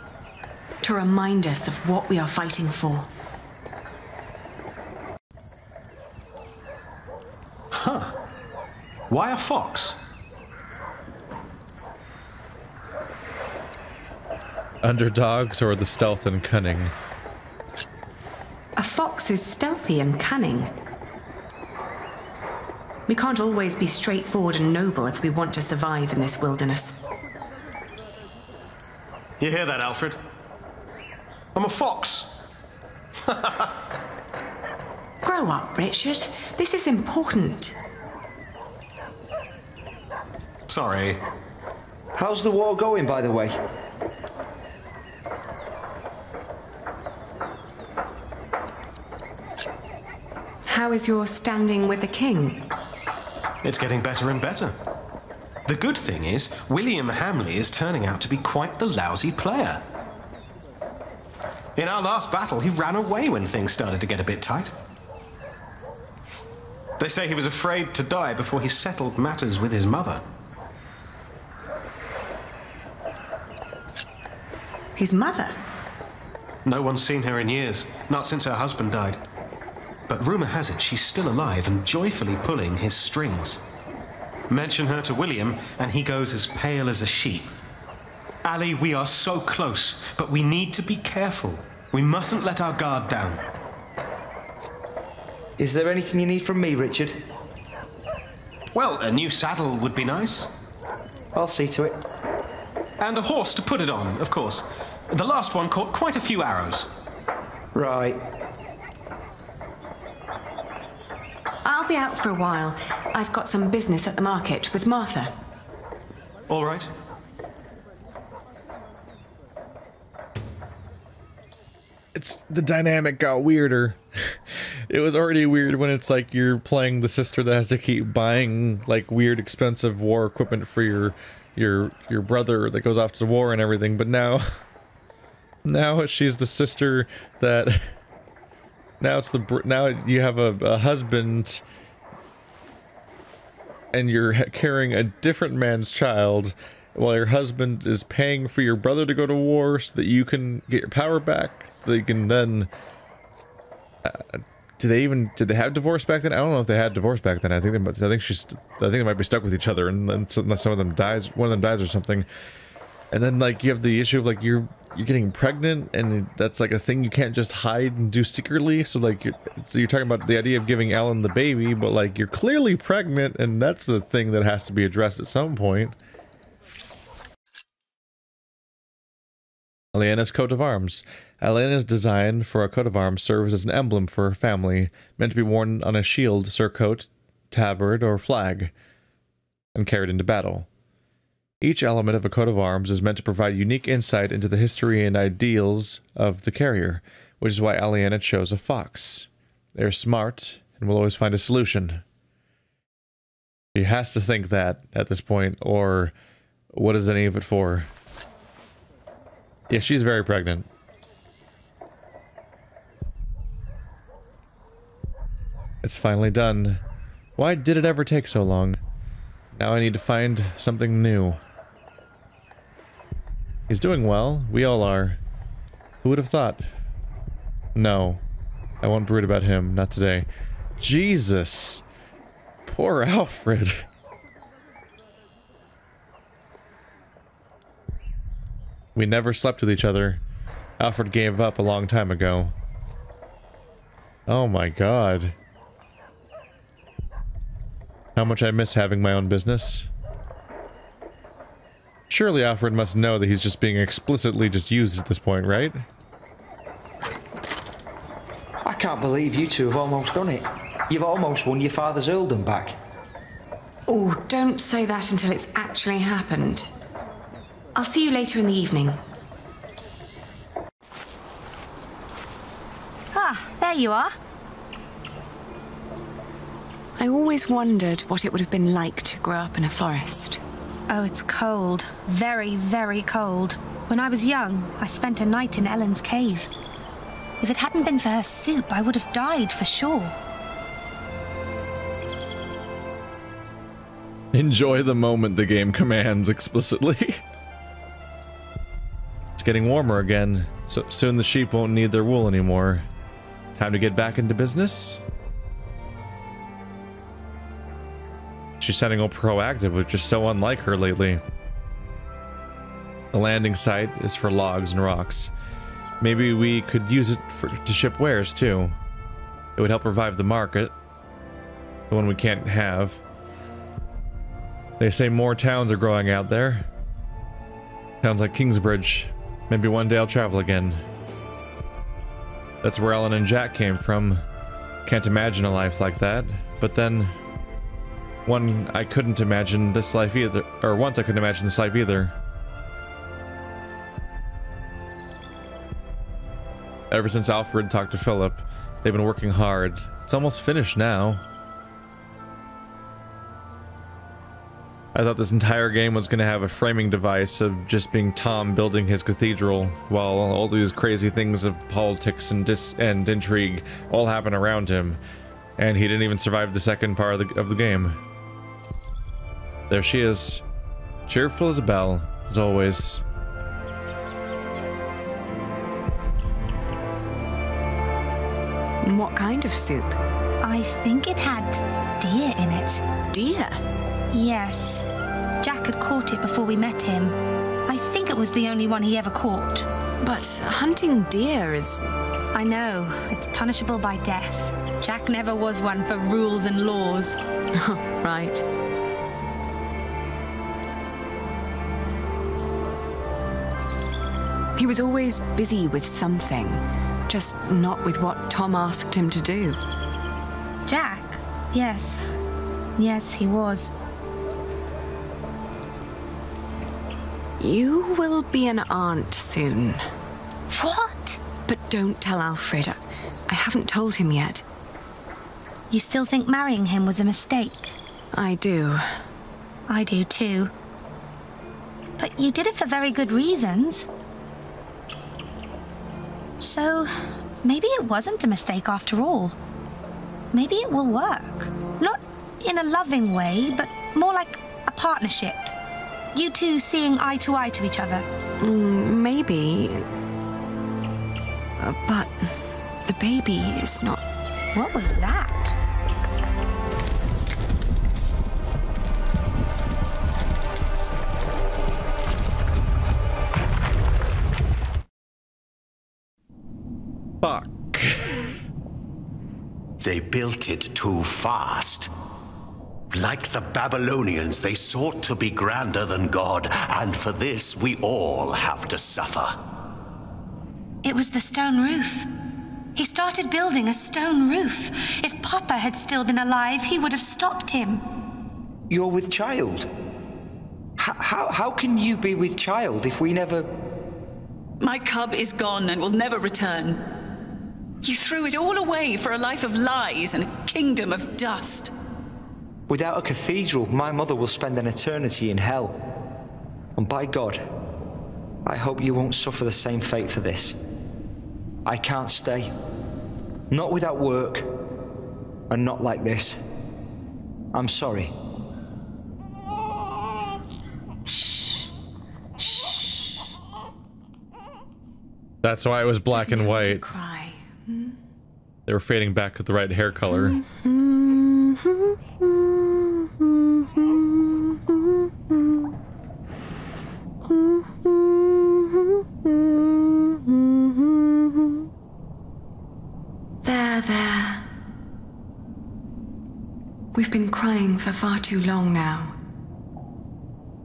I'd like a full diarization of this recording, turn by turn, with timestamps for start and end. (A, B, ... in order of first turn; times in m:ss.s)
0:00.8-0:03.1 A
0:07.7-0:08.2 B
0:09.1-0:10.0 B
0:14.8-0:16.9 C
0:18.8-0:20.7 A
0:23.1-0:26.9 A
0:29.4-0:30.2 B
0:31.6-0:32.4 B
0:33.2-0:33.8 B
0:35.2-0:37.8 A
0:40.7-0:41.2 B
0:42.2-0:43.6 D
0:50.7-0:52.7 A
0:53.6-0:54.8 B
0:55.7-0:59.8 B
1:01.8-1:04.7 B
1:07.0-1:10.2 B
1:15.0-1:15.6 A
1:16.6-1:19.2 B
1:20.1-1:23.6 B
1:24.5-1:27.5 B
1:28.4-1:33.4 B
1:35.6-1:37.2 D
1:38.7-1:40.5 B
1:41.4-1:42.0 D
1:43.0-1:46.9 B
1:47.7-1:48.2 D
1:51.6-1:55.3 A
1:56.5-1:56.9 B
2:02.2-2:14.5 C
2:15.6-2:17.9 C
2:19.0-2:21.6 C
2:23.9-2:32.7 C
2:34.0-2:42.3 C
2:43.1-2:56.0 C
2:59.9-3:08.7 C
3:09.8-3:10.7 C
3:11.6-3:22.0 C
3:23.8-3:26.1 C
3:26.7-3:27.9 C
3:29.7-3:30.7 C
3:35.8-3:36.8 C
3:37.4-3:38.8 C
3:39.6-3:41.4 C
3:43.7-3:45.2 C
3:46.0-3:46.7 C
3:47.8-3:48.2 C
3:48.8-3:50.3 C
3:50.8-3:51.8 C
3:52.7-3:53.9 C
3:59.0-4:00.2 C
4:00.8-4:02.5 C
4:04.3-4:05.4 C
4:08.2-4:09.9 C
4:12.1-4:15.8 C
4:18.6-4:22.8 D
4:23.9-4:26.7 A
4:27.8-4:29.0 A
4:33.1-4:34.2 E
4:37.0-4:40.4 A
4:40.9-4:46.5 E
4:47.4-4:50.1 E
4:54.3-4:57.2 C
4:59.4-5:02.8 C
5:03.6-5:05.0 C
5:08.6-5:11.2 C
5:13.1-5:15.3 C
5:16.0-5:18.8 C
5:19.6-5:20.7 C
5:21.9-5:23.0 C
5:24.8-5:26.7 C
5:28.0-5:30.8 C
5:32.6-5:34.2 C
5:34.8-5:37.2 C
5:38.3-5:42.1 C
5:46.9-5:51.2 C
5:54.9-6:05.0 C
6:05.6-6:08.0 C
6:09.7-6:10.4 C
6:11.1-6:13.0 C
6:18.8-6:20.0 A
6:20.4-6:22.8 E
6:23.1-6:23.6 A
6:24.1-6:24.8 E
6:25.4-6:27.2 E
6:27.7-6:29.7 E
6:30.0-6:31.8 A
6:32.3-6:37.2 E
6:37.6-6:38.4 A
6:44.6-6:49.6 A
6:50.7-6:52.1 E
6:52.8-6:53.7 E
6:57.4-6:59.8 A
7:00.5-7:01.2 E
7:01.5-7:04.4 A
7:05.7-7:07.7 E
7:08.1-7:08.9 A
7:09.7-7:10.5 E
7:12.0-7:13.9 E
7:16.4-7:19.4 E
7:20.3-7:25.5 E
7:26.1-7:28.1 E
7:28.4-7:29.8 A
7:31.6-7:32.3 A
7:32.9-7:34.0 A
7:34.5-7:35.6 E
7:47.2-7:48.2 C
7:49.8-7:51.9 F
7:52.9-7:59.4 F
8:00.8-8:02.1 E
8:02.8-8:07.8 E
8:08.7-8:09.7 D
8:10.8-8:13.5 D
8:14.6-8:16.8 G
8:17.8-8:21.7 G
8:22.7-8:25.8 D
8:26.8-8:27.4 D
8:28.4-8:30.6 D
8:31.6-8:32.5 D
8:33.5-8:34.5 D
8:35.5-8:36.4 D
8:37.5-8:38.1 D
8:41.1-8:41.7 A
8:42.4-8:43.2 A
8:45.4-8:46.8 C
8:46.1-8:48.0 A
8:48.7-8:50.4 C
8:50.1-8:55.7 A
8:57.2-9:01.7 A
9:03.4-9:04.5 A
9:07.0-9:09.2 A